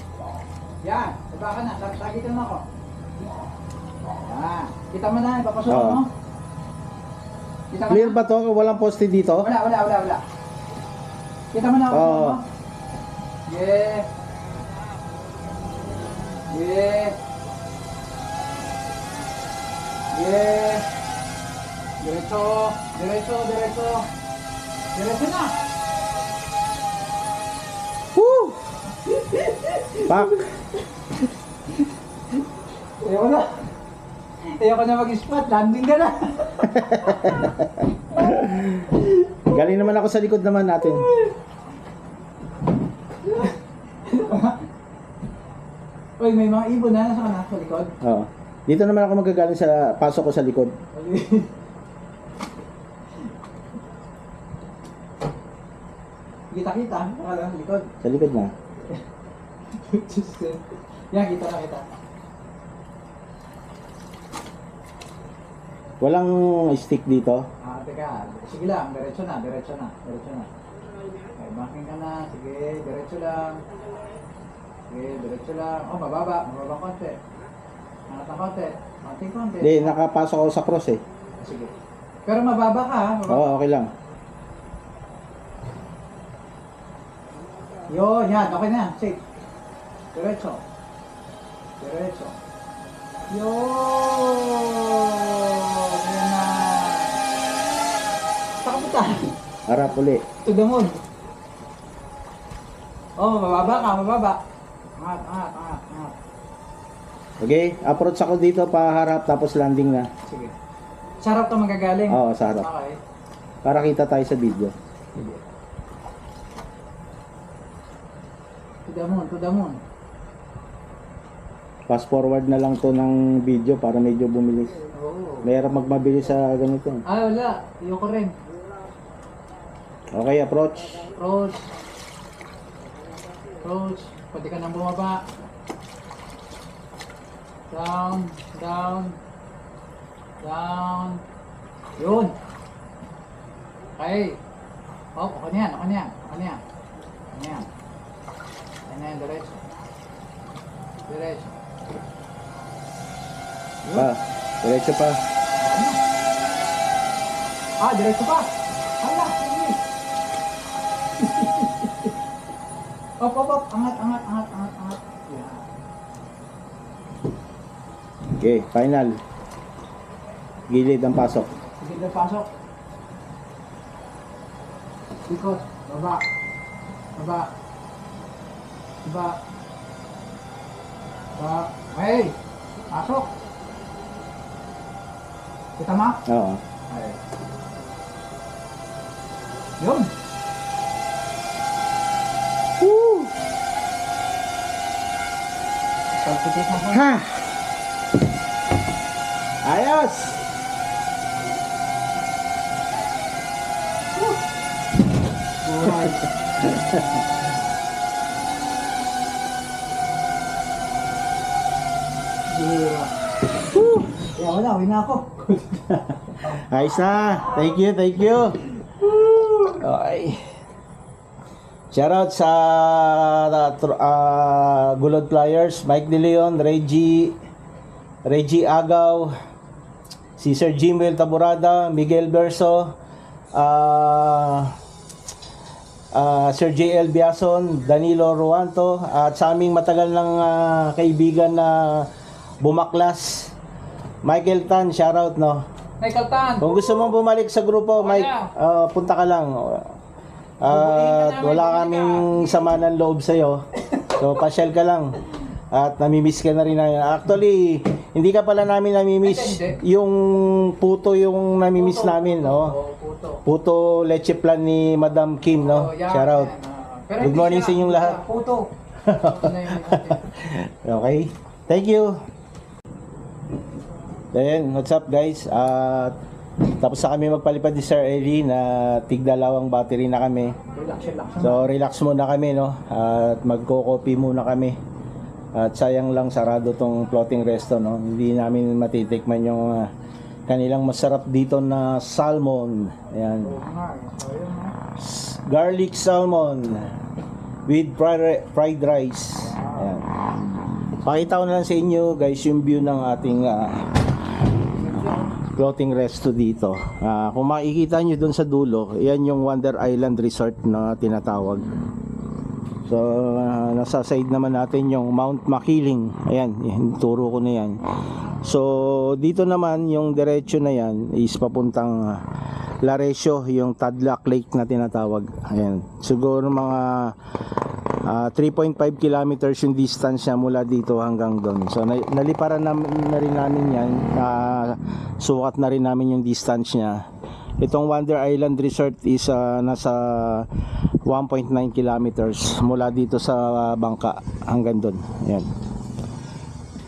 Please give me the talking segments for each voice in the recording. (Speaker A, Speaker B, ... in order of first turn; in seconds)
Speaker A: 0.8-2.6, 4.2-6.1, 7.7-8.2, 9.4-10.2, 11.5-12.4, 13.5-14.1, 16.5-17.2, 20.1-20.8, 22.0-24.1, 24.9-25.6, 29.1-30.4, 31.7-32.4, 33.0-33.7, 34.6-37.3, 43.2-44.6, 46.2-47.9, 50.9-51.5, 56.5-57.9, 59.8-61.9, 67.6-70.5, 71.4-73.6, 74.9-77.2, 78.1-80.0, 81.4-81.7, 82.2-83.5, 87.9-89.2, 90.1-90.6, 91.8-92.4, 93.3-97.1, 98.6-99.3, 100.4-101.0, 103.2-104.4, 105.0-106.1, 110.2-110.5, 111.2-113.0, 115.1-115.4, 118.9-119.8, 124.9-125.5, 127.1-128.3, 131.1-131.7, 133.6-135.2, 137.7-139.2, 140.4-141.2, 142.0-142.3, 144.0-144.4, 145.2-146.6, 147.3-147.7, 148.9-149.7, 151.1-151.6, 155.6-156.0, 157.8-159.8, 161.2-162.1, 163.2-165.6, 171.8-172.5, 175.3-176.2, 177.2-177.5, 179.1-179.4, 181.4-182.4, 182.9-183.3, 185.8-186.2, 186.9-187.2, 189.8-190.1, 196.1-197.0, 205.6-206.3, 212.5-213.1, 214.3-216.0, 219.0-219.7, 246.0-247.0, 248.0-248.5, 250.7-252.6, 259.2-259.8, 261.8-263.4, 265.6-270.2, 280.8-281.7, 293.4-294.8, 299.4-299.9, 304.8-305.4
Speaker B: 5.7-6.0, 7.9-9.5, 11.9-12.4, 28.2-28.6, 30.1-30.4, 36.7-41.1, 48.0-50.7, 58.0-58.5, 66.0-67.4, 79.6-81.0, 83.3-83.9, 99.7-100.2, 107.4-110.1, 112.1-112.7, 113.6-114.7, 121.9-124.8, 125.5-127.0, 130.1-131.0, 153.9-155.2, 168.4-169.2, 170.7-171.5, 186.2-186.6, 192.8-193.3, 196.9-197.5, 199.6-200.5, 206.6-207.2, 213.7-214.1, 216.3-220.4, 221.9-227.4, 228.3-229.3, 230.4-232.8, 233.6-234.8, 236.1-242.1, 242.6-243.5, 244.2-245.6, 246.6-249.9, 250.6-255.2, 255.7-262.8, 263.4-266.5, 267.2-268.2, 269.1-272.1, 274.3-276.1, 276.8-280.6, 281.4-284.8, 285.6-289.9, 290.5-293.6, 295.0-296.9, 297.7-300.1, 301.0-303.9, 305.4-311.6, 312.9-317.8, 318.4-322.2, 322.8-327.2, 328.0-337.0, 337.6-340.5, 341.1-345.5